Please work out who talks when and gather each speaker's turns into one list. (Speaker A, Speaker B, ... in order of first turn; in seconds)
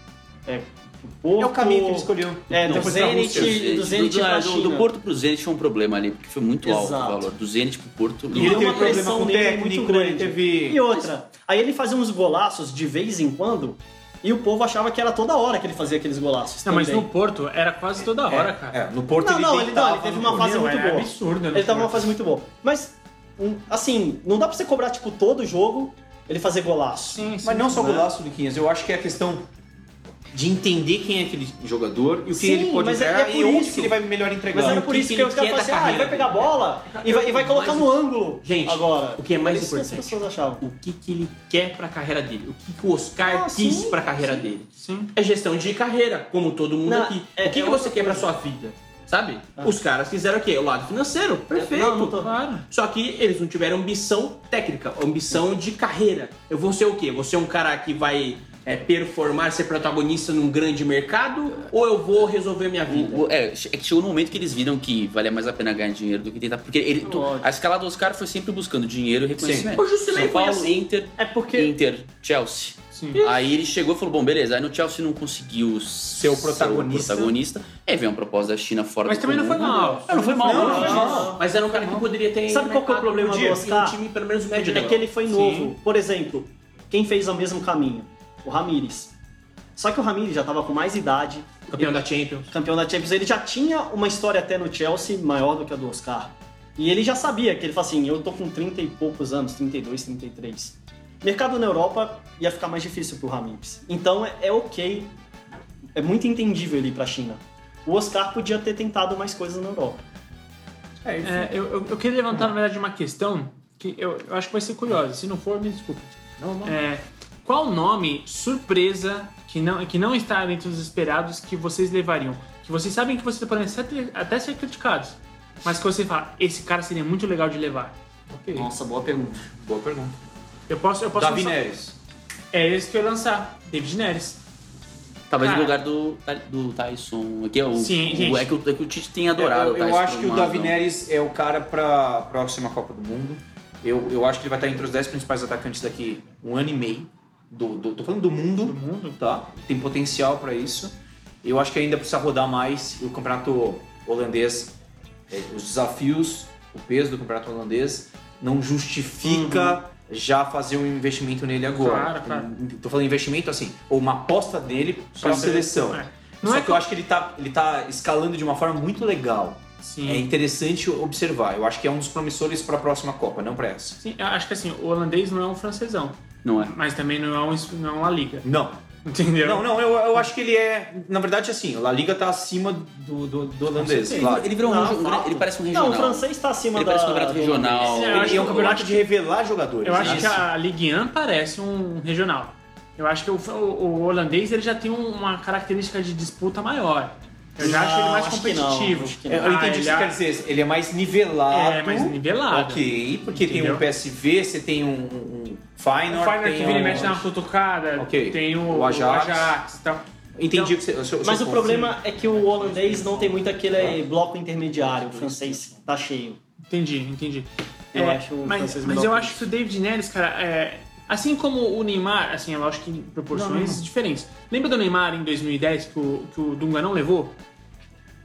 Speaker A: 0.5-4.9, 6.6-7.3, 8.3-17.1, 19.2-28.1, 32.3-34.0, 34.5-40.6, 43.2-44.5, 46.9-48.3, 51.5-52.3, 67.0-67.5, 71.2-71.7, 80.1-81.5, 82.5-84.0, 84.5-89.1, 89.8-92.0, 92.5-105.1, 106.0-110.0, 128.5-129.4, 159.2-159.8, 184.6-188.4, 197.6-199.6, 211.2-216.4, 217.9-219.4
Speaker B: 1.4-3.6, 8.3-10.9, 18.2-20.6, 27.4-29.5, 30.3-34.9, 69.4-69.7, 76.1-77.4, 80.4-82.0, 83.3-83.6, 111.0-111.5, 116.4-116.7, 128.3-128.7, 129.5-130.1, 131.1-132.0, 139.3-154.8, 155.3-174.0, 178.4-178.8, 179.4-184.5, 188.1-190.5, 199.3-207.3, 208.0-209.6, 210.4-212.0, 212.7-213.1, 223.3-223.9
Speaker C: 2.7-9.0, 62.9-81.3, 135.3-140.8, 176.4-176.7, 184.0-188.5
Speaker D: 16.6-18.8, 20.3-22.2, 27.0-28.0, 44.8-45.1, 52.1-52.7, 72.9-73.3, 79.1-81.2, 85.3-85.8, 111.2-128.0, 130.7-131.6, 132.5-134.4, 135.4-135.8, 137.8-138.5, 148.6-149.2, 161.7-162.5, 165.2-166.8, 169.8-170.3, 174.0-178.5, 179.1-179.7, 183.8-184.3, 187.9-189.1, 189.8-200.2, 201.5-203.8, 206.1-210.8, 216.7-227.4
Speaker E: 34.6-63.3, 69.8-70.8, 81.3-85.1, 91.7-92.5, 214.9-215.6